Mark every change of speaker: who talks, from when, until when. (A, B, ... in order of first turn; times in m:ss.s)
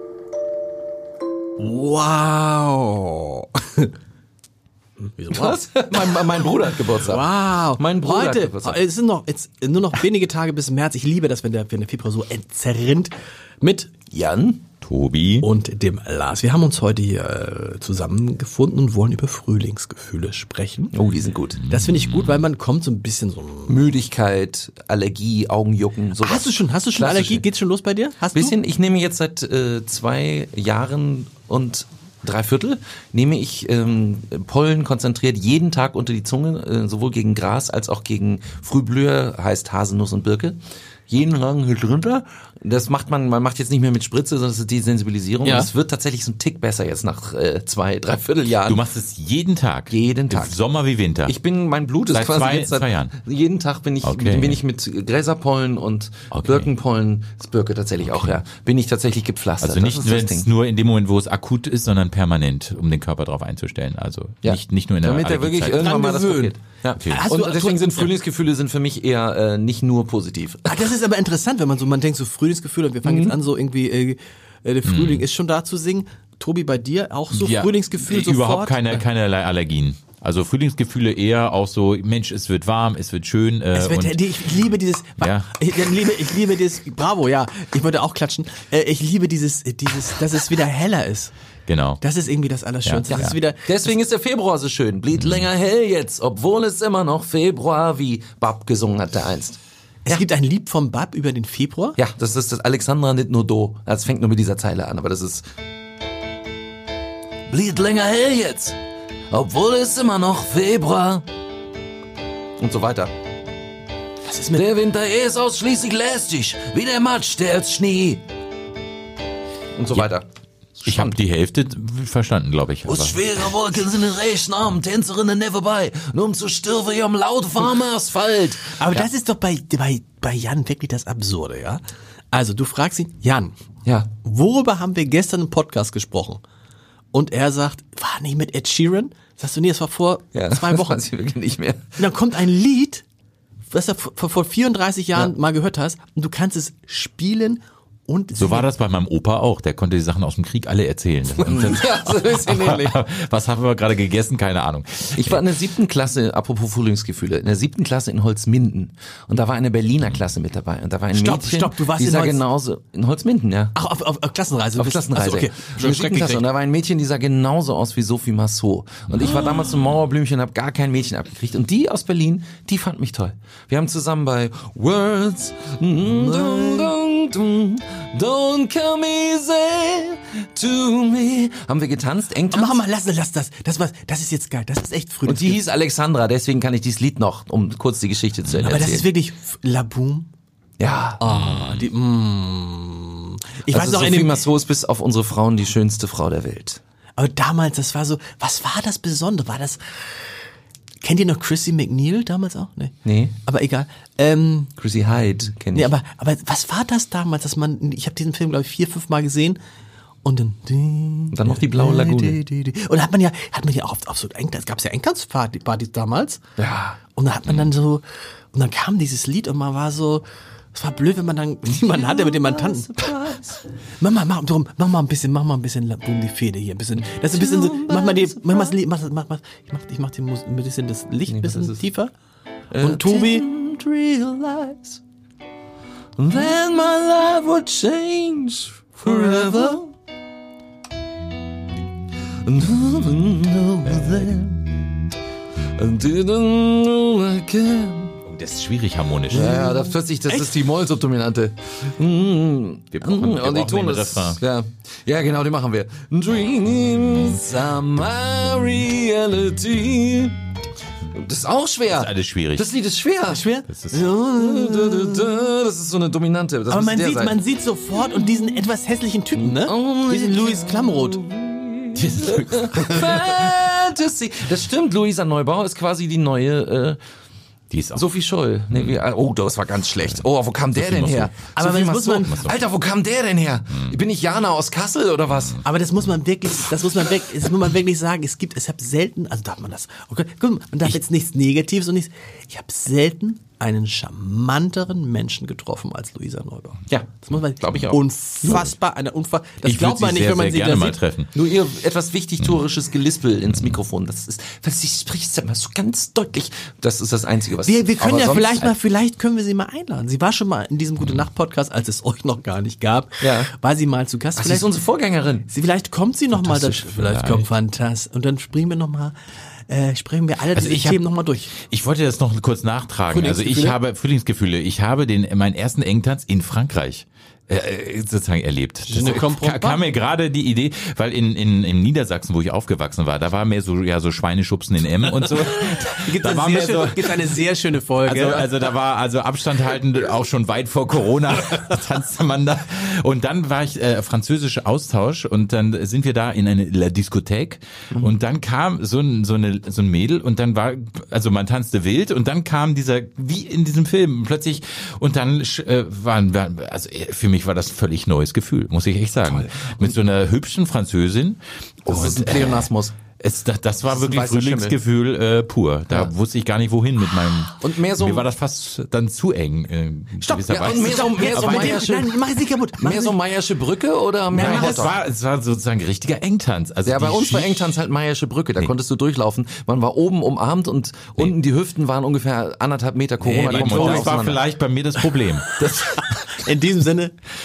0:01.6-0:03.9 A
0:05.0-0:05.9 A
0:05.3-0:08.8 B
0:07.0-0:13.9 A
0:14.1-0:14.6 B
0:14.8-0:15.5 C
0:15.4-0:20.9 A
0:20.9-0:21.6 B
0:21.6-0:23.8 A
0:21.7-0:22.4 C
0:23.7-0:27.4 B
0:26.2-0:28.6 A
0:28.3-0:40.6 B
0:41.1-0:48.8 B
0:45.4-0:45.7 A
0:48.6-0:51.3 C
0:49.9-0:50.6 B
0:51.2-1:00.5 B
0:52.1-0:53.1 C
0:54.0-0:54.6 C
0:56.3-0:56.7 C
0:58.0-0:58.4 C
0:59.6-1:05.9 C
1:04.4-1:10.8 B
1:05.8-1:08.1 A
1:07.0-1:07.3 C
1:10.6-1:19.0 A
1:13.0-1:13.3 B
1:14.8-1:15.2 C
1:17.3-1:24.3 C
1:23.7-1:31.3 A
1:25.2-1:25.5 C
1:31.7-1:32.0 C
1:32.0-1:33.8 A
1:32.8-1:33.4 C
1:33.1-1:40.2 B
1:35.1-1:35.5 C
1:40.0-1:42.0 A
1:42.0-1:45.4 B
1:47.5-1:48.8 B
1:49.3-1:51.2 B
1:52.6-1:53.1 B
1:54.2-1:54.7 A
1:54.5-1:58.2 B
1:59.8-2:00.2 B
2:00.8-2:03.2 C
2:00.8-2:01.2 B
2:02.8-2:09.0 B
2:08.8-2:13.6 A
2:14.2-2:16.4 A
2:17.1-2:21.0 A
2:20.3-2:22.0 B
2:22.0-2:23.0 A
2:23.7-2:28.7 A
2:28.4-2:35.4 C
2:31.4-2:33.0 B
2:35.1-2:43.8 B
2:41.1-2:42.4 A
2:43.7-2:46.4 A
2:44.8-3:02.8 B
2:56.1-2:56.9 A
3:02.5-3:05.6 A
3:05.2-3:09.0 B
3:08.6-3:10.3 A
3:10.8-3:11.6 B
3:11.2-3:14.4 A
3:11.3-3:11.8 C
3:13.7-3:16.8 B
3:17.2-3:19.8 A
3:21.0-3:24.7 A
3:23.0-3:23.3 B
3:24.8-3:25.9 B
3:25.7-3:29.6 A
3:30.2-3:36.4 A
3:31.3-3:32.4 B
3:36.6-3:37.0 B
3:37.1-3:43.1 A
3:41.8-3:43.6 B
3:44.0-3:52.1 A
3:47.1-3:48.7 B
3:51.3-3:51.8 B
3:52.7-3:55.0 B
3:52.8-3:53.5 A
3:56.2-3:59.9 B
3:59.1-3:59.5 A
4:02.4-4:04.6 B
4:05.7-4:08.1 B
4:08.2-4:09.6 C
4:09.3-4:20.4 B
4:09.4-4:09.7 A
4:12.9-4:14.4 C
4:21.1-4:23.4 B
4:21.9-4:22.7 C
4:23.3-4:25.3 A
4:23.7-4:24.0 C
4:24.2-4:27.4 B
4:26.7-4:31.3 A
4:29.4-4:37.0 B
4:31.9-4:33.3 C
4:37.7-4:38.0 C
4:37.9-4:45.6 B
4:40.8-4:41.3 C
4:41.6-4:42.5 A
4:42.3-4:42.6 C
4:45.6-5:01.0 A
4:56.9-4:58.6 B
4:59.6-5:01.3 C
5:01.3-5:08.7 B
5:07.6-5:14.7 A
5:13.2-5:13.5 B
5:14.4-5:15.5 B
5:15.5-5:19.1 A
5:16.3-5:17.5 C
5:19.7-5:21.5 A
5:20.5-5:37.5 C
5:23.1-5:23.8 A
5:28.8-5:29.8 A
5:35.8-5:38.5 A
5:38.0-6:02.7 C
5:59.2-5:59.9 B
6:01.8-6:03.0 B
6:03.2-6:11.9 C
6:03.9-6:04.8 B
6:07.6-6:08.3 B
6:10.2-6:13.2 A
6:10.5-6:12.2 B
6:12.8-6:15.0 B
6:14.3-6:14.8 A
6:14.3-6:17.7 C
6:16.8-6:24.4 B
6:23.2-6:25.6 C
6:23.4-6:24.1 A
6:25.6-6:27.1 A